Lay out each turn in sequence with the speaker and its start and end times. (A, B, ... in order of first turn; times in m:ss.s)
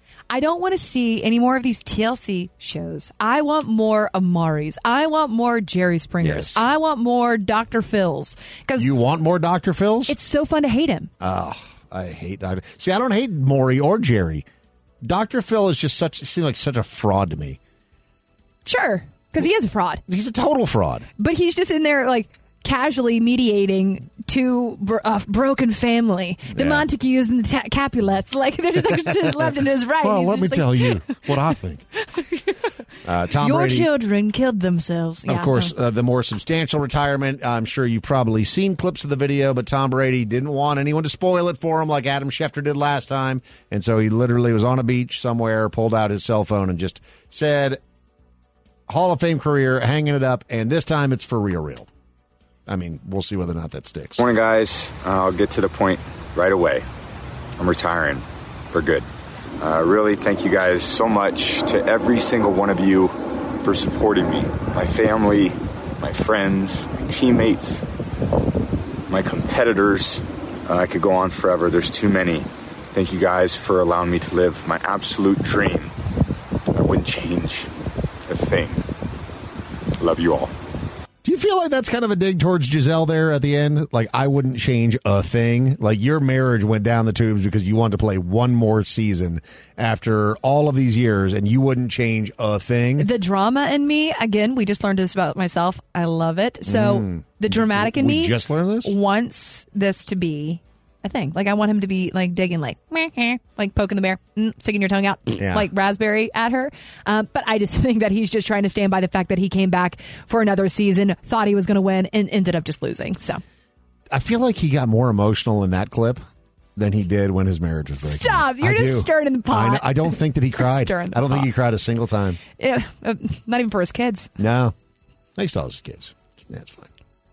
0:00.3-0:08.9 A
0:06.2-0:06.6 B
0:08.8-0:10.1 B
0:10.1-0:11.1 A
0:11.2-0:14.4 B
0:15.0-0:17.6 B
0:18.6-0:20.0 A
0:20.1-0:21.1 B
0:21.2-0:31.3 A
0:26.5-0:26.8 B
0:28.9-0:31.8 B
0:32.1-0:32.6 A
0:33.0-0:33.9 B
0:33.4-0:35.7 A
0:35.3-0:47.8 B
0:48.9-0:51.9 B
0:52.7-0:54.2 B
0:54.2-0:56.8 C
0:57.6-0:59.0 C
0:59.6-1:07.8 C
1:09.1-1:15.9 C
1:16.7-1:17.7 C
1:18.3-1:18.8 C
1:20.0-1:20.5 C
1:21.2-1:33.1 B
1:33.0-1:53.4 A
1:36.6-1:38.9 B
1:45.4-1:45.7 B
1:54.1-1:56.2 B
1:56.8-2:02.4 B
1:58.0-2:01.5 A
2:02.6-2:04.3 A
2:04.4-2:04.7 B
2:05.4-2:06.9 B